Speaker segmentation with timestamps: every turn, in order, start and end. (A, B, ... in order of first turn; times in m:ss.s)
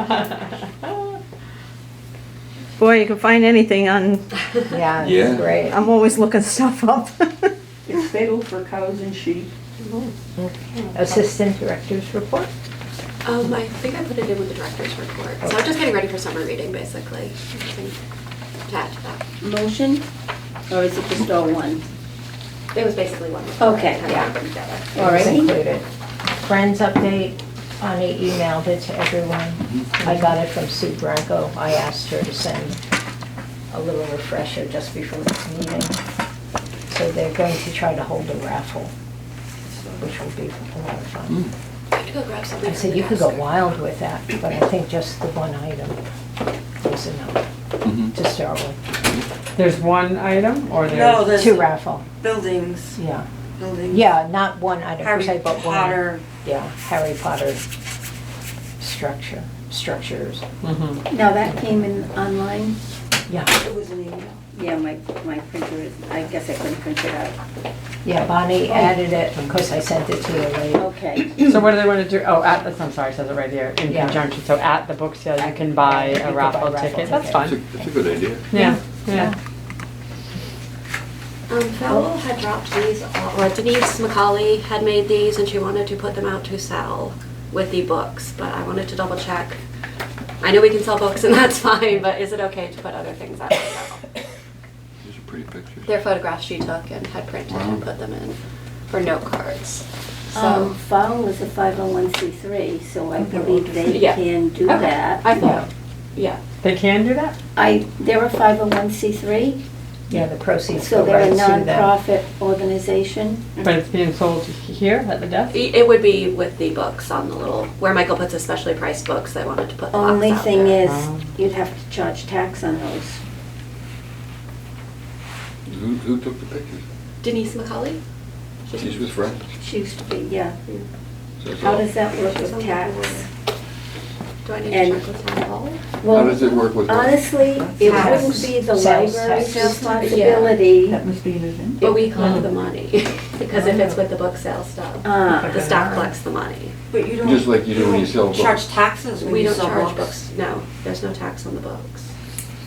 0:02.8-0:04.3 A
0:04.7-0:05.8 B
0:05.0-0:05.5 C
0:05.6-0:07.5 A
0:07.9-0:09.5 D
0:10.4-0:12.5 B
0:10.9-0:11.2 E
0:13.2-0:18.0 F
0:15.4-0:15.7 B
0:18.7-0:19.2 F
0:19.4-0:20.0 G
0:20.7-0:21.8 G
0:22.7-0:24.9 F
0:23.6-0:24.1 G
0:24.1-0:24.3 B
0:24.9-0:25.6 G
0:25.0-0:25.9 B
0:26.4-0:32.8 B
0:33.7-0:36.0 B
0:36.9-0:38.9 B
0:39.7-0:40.0 D
0:40.0-0:41.4 B
0:41.9-0:43.8 F
0:42.6-0:46.0 B
0:46.8-0:47.4 B
0:47.8-0:48.2 C
0:48.1-0:48.8 B
0:49.0-0:49.3 C
0:49.6-0:51.3 E
0:50.8-0:53.0 H
0:51.3-0:52.1 B
0:53.0-0:53.3 B
0:53.6-0:54.0 H
0:53.9-0:57.6 B
0:55.0-0:56.2 H
0:58.8-1:00.4 B
1:00.6-1:01.0 E
1:01.1-1:02.8 G
1:03.3-1:03.6 B
1:03.9-1:04.4 H
1:04.5-1:07.4 G
1:08.0-1:10.9 B
1:08.7-1:09.0 G
1:09.3-1:09.6 E
1:10.7-1:11.4 G
1:11.4-1:17.6 E
1:13.9-1:14.2 B
1:15.4-1:17.9 B
1:17.4-1:18.5 C
1:18.5-1:19.3 E
1:18.5-1:19.4 B
1:21.5-1:29.6 F
1:30.4-1:34.0 F
1:35.0-1:35.9 C
1:35.9-1:38.4 F
1:37.5-1:37.8 C
1:38.9-1:40.7 F
1:40.3-1:45.3 G
1:43.2-1:44.1 D
1:43.9-1:46.4 F
1:45.4-1:45.7 B
1:46.6-1:47.4 E
1:47.6-1:49.6 G
1:50.1-1:52.0 B
1:50.8-1:53.7 G
1:53.6-1:55.6 E
1:55.5-2:00.8 F
1:59.9-2:03.2 G
2:00.8-2:01.3 E
2:05.7-2:06.8 C
2:07.2-2:08.0 F
2:08.7-2:09.0 F
2:08.8-2:09.6 C
2:09.6-2:10.6 G
2:11.4-2:11.9 C
2:11.6-2:13.3 G
2:12.1-2:13.3 F
2:14.4-2:15.8 F
2:14.7-2:15.0 G
2:16.0-2:21.0 G
2:16.1-2:17.4 C
2:17.4-2:18.5 D
2:17.8-2:18.2 F
2:17.9-2:19.9 B
2:19.5-2:20.6 F
2:20.9-2:22.1 D
2:21.8-2:26.7 F
2:22.2-2:22.5 E
2:23.6-2:23.9 E
2:25.0-2:25.7 G
2:25.2-2:26.0 E
2:26.9-2:30.2 H
2:27.2-2:28.7 C
2:29.2-2:32.1 F